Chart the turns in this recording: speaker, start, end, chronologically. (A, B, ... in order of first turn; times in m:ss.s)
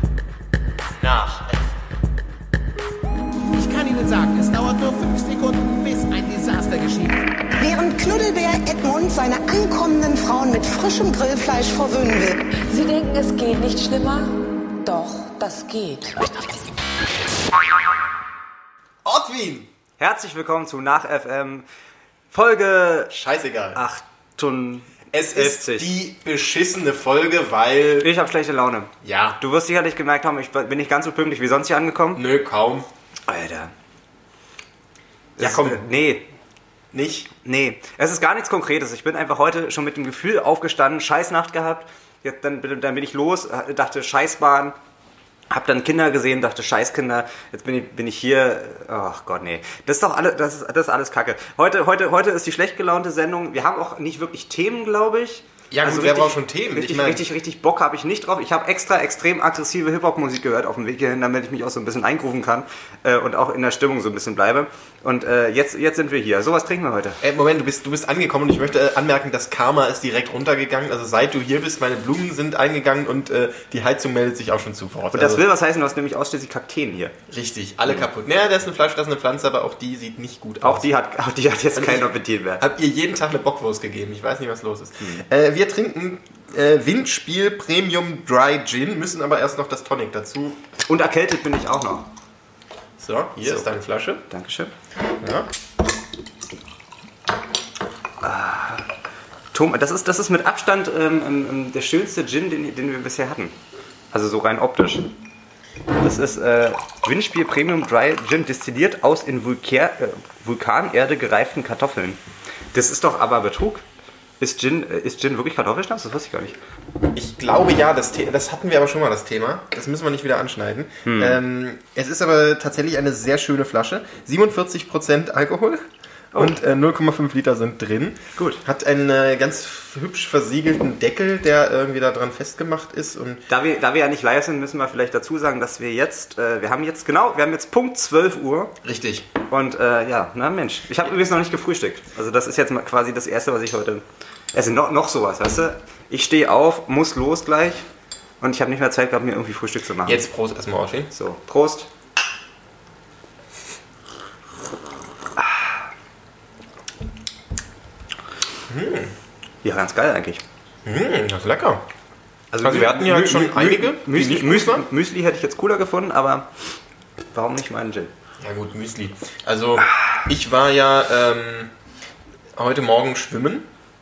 0:00.9-0:01.7 A
0:03.5-0:07.2 B
0:07.6-0:12.4 C
0:12.5-0:16.3 D
0:19.0-0:19.7 A
0:20.0-0:21.7 E
0:22.3-0:23.1 E
0:23.1-0:23.8 A
0:23.8-0:25.9 E
0:25.1-0:28.1 A
0:28.0-0:32.2 E
0:29.0-0:29.4 A
0:32.2-0:32.9 A
0:33.3-0:33.7 E
0:35.4-0:36.3 E
0:35.4-0:35.8 A
0:36.9-0:37.3 A
0:37.4-0:44.8 E
0:45.5-1:07.2 E
0:55.7-0:57.3 A
1:07.2-1:15.4 A
1:15.1-1:17.2 E
1:17.3-1:20.9 A
1:20.6-1:22.6 E
1:21.8-1:30.6 A
1:30.9-1:32.1 E
1:33.0-1:34.2 A
1:33.4-1:33.7 E
1:34.3-1:34.7 E
1:35.2-1:35.5 A
1:38.2-1:38.9 E
1:39.5-1:43.5 E
1:44.1-1:45.1 E
1:46.0-1:52.2 E
1:52.7-1:53.8 E
1:54.4-1:56.6 E
1:57.1-2:05.8 A
2:01.0-2:01.4 E
2:06.4-2:13.4 A
2:13.5-2:18.7 E
2:18.8-2:19.3 A
2:19.5-2:24.0 E
2:24.5-2:27.8 E
2:28.4-2:30.2 E
2:30.0-2:31.1 A
2:31.1-2:31.9 E
2:38.7-2:39.1 A
2:39.6-2:40.4 E
2:40.8-2:41.8 A
2:42.5-2:46.5 E
2:42.6-2:44.9 A
2:47.3-2:48.1 E
2:48.4-2:51.7 A
2:52.6-2:53.7 A